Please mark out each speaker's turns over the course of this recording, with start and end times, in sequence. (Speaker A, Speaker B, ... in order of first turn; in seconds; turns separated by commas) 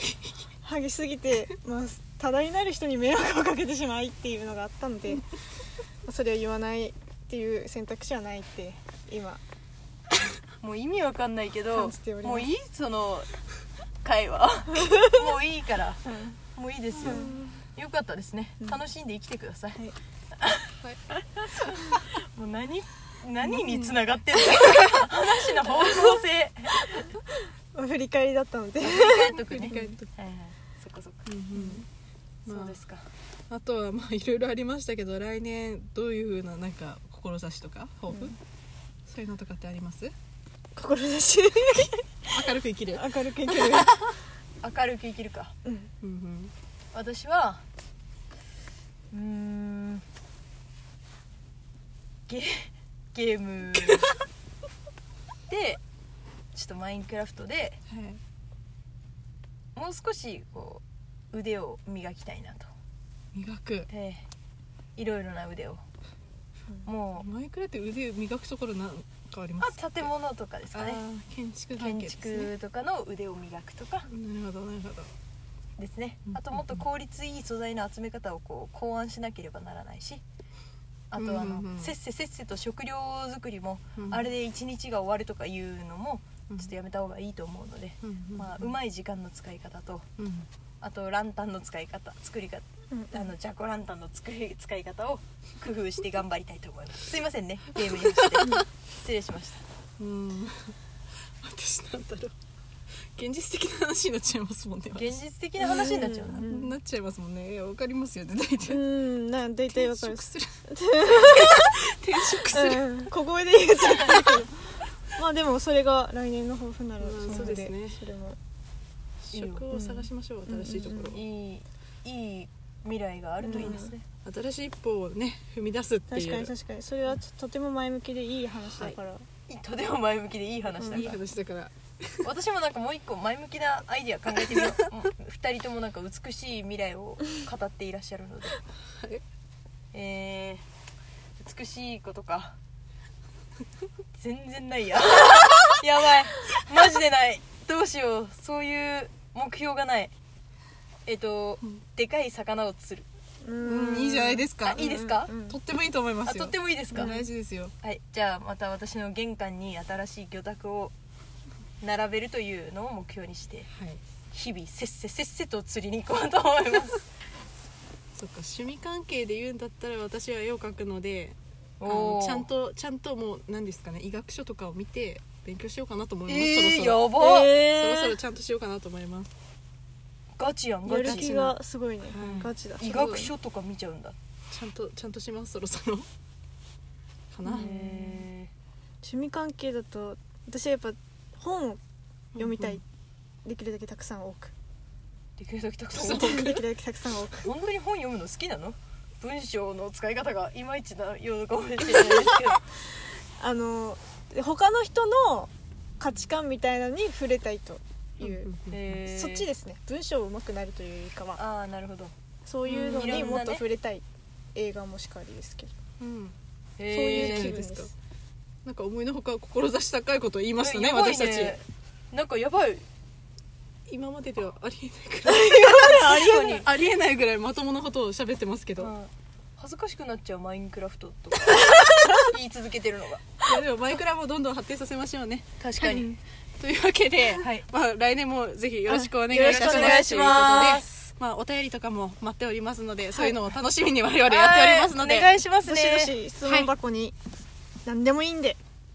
Speaker A: 0.6-5.2, Speaker A: 6.0-9.4, Speaker B: 10.6-13.3, Speaker A: 11.7-12.5, Speaker B: 14.0-19.8, Speaker A: 16.1-16.4, Speaker C: 17.0-17.4, Speaker A: 17.0-17.6, Speaker B: 20.4-27.1, Speaker C: 23.5-23.9, Speaker A: 25.6-26.1, Speaker A: 26.8-29.7, Speaker B: 28.8-31.2, Speaker C: 29.3-30.1, Speaker C: 31.3-31.9, Speaker A: 31.5-31.8, Speaker B: 32.5-33.1, Speaker C: 32.5-32.8, Speaker C: 33.5-38.4, Speaker A: 38.1-38.4, Speaker C: 39.1-40.1, Speaker A: 40.8-44.0, Speaker C: 42.3-44.1, Speaker B: 44.6-45.5, Speaker A: 45.6-45.9, Speaker C: 46.0-46.5, Speaker B: 46.9-47.6, Speaker B: 49.1-50.0, Speaker B: 52.3-54.2, Speaker B: 55.5-55.8, Speaker B: 56.5-57.8, Speaker C: 57.9-58.2, Speaker B: 59.8-62.7, Speaker C: 63.3-63.9, Speaker B: 63.9-64.2, Speaker B: 65.0-65.8, Speaker B: 66.8-67.3, Speaker C: 67.2-70.1, Speaker B: 69.6-71.0, Speaker C: 70.7-72.5, Speaker B: 71.8-74.1, Speaker C: 74.1-75.1, Speaker B: 75.8-80.2, Speaker C: 76.3-76.8, Speaker B: 81.1-90.1, Speaker C: 81.2-81.9, Speaker C: 84.0-84.3, Speaker C: 88.0-88.7, Speaker C: 90.2-90.5, Speaker B: 90.8-99.6, Speaker A: 92.9-93.3, Speaker C: 100.0-100.8, Speaker C: 101.4-102.3, Speaker C: 103.2-105.2, Speaker B: 105.0-106.5, Speaker A: 105.6-106.8, Speaker C: 106.3-108.9, Speaker A: 108.7-111.7, Speaker C: 109.7-110.5, Speaker C: 111.1-113.1, Speaker A: 112.3-118.4, Speaker B: 113.8-114.4, Speaker C: 114.0-114.3, Speaker C: 117.0-118.0, Speaker C: 119.2-121.2, Speaker B: 119.3-119.7, Speaker A: 119.7-121.2, Speaker B: 121.1-124.1, Speaker A: 123.4-123.9, Speaker C: 123.5-126.5, Speaker A: 126.1-129.3, Speaker B: 129.5-131.2, Speaker A: 130.8-131.1, Speaker C: 130.9-132.3, Speaker B: 132.2-138.6, Speaker B: 139.9-140.6, Speaker B: 141.4-142.6, Speaker B: 144.2-150.1, Speaker B: 151.1-153.1, Speaker A: 153.4-155.6, Speaker C: 153.6-157.7, Speaker B: 154.7-155.3, Speaker B: 156.3-157.2, Speaker A: 156.9-157.2, Speaker B: 157.8-160.9, Speaker B: 161.8-163.7, Speaker C: 163.7-164.0, Speaker B: 164.3-167.0, Speaker C: 168.2-179.3, Speaker B: 171.8-172.5, Speaker B: 176.3-177.7, Speaker A: 177.2-178.0, Speaker B: 180.4-181.5, Speaker A: 180.8-183.3, Speaker C: 181.0-182.5, Speaker B: 182.2-184.2, Speaker C: 184.5-186.1, Speaker C: 187.3-188.3, Speaker A: 187.4-188.0, Speaker B: 187.5-188.5, Speaker A: 189.0-191.8, Speaker A: 192.4-192.8, Speaker C: 192.4-192.8, Speaker A: 193.4-194.5, Speaker B: 195.4-196.6, Speaker A: 196.0-197.4, Speaker B: 197.3-202.6, Speaker A: 203.4-208.5, Speaker C: 208.2-209.0, Speaker B: 208.7-209.5, Speaker A: 209.1-211.4, Speaker B: 211.4-212.1, Speaker A: 212.4-214.0, Speaker C: 212.7-213.4, Speaker B: 212.8-213.7, Speaker A: 214.6-215.7, Speaker C: 216.0-216.3, Speaker B: 216.8-217.6, Speaker A: 216.9-217.9, Speaker C: 217.1-217.9, Speaker C: 218.7-221.6, Speaker B: 220.6-222.8, Speaker C: 223.9-228.9, Speaker A: 225.2-226.6, Speaker B: 225.5-226.7, Speaker B: 228.8-233.4, Speaker A: 231.8-232.1, Speaker C: 233.4-235.6, Speaker B: 235.6-236.2, Speaker A: 235.8-236.2, Speaker C: 236.6-245.3, Speaker B: 237.4-237.7, Speaker A: 238.9-240.8, Speaker B: 239.3-241.1, Speaker B: 244.3-246.2, Speaker A: 245.6-247.2, Speaker C: 246.4-246.7, Speaker A: 247.9-248.6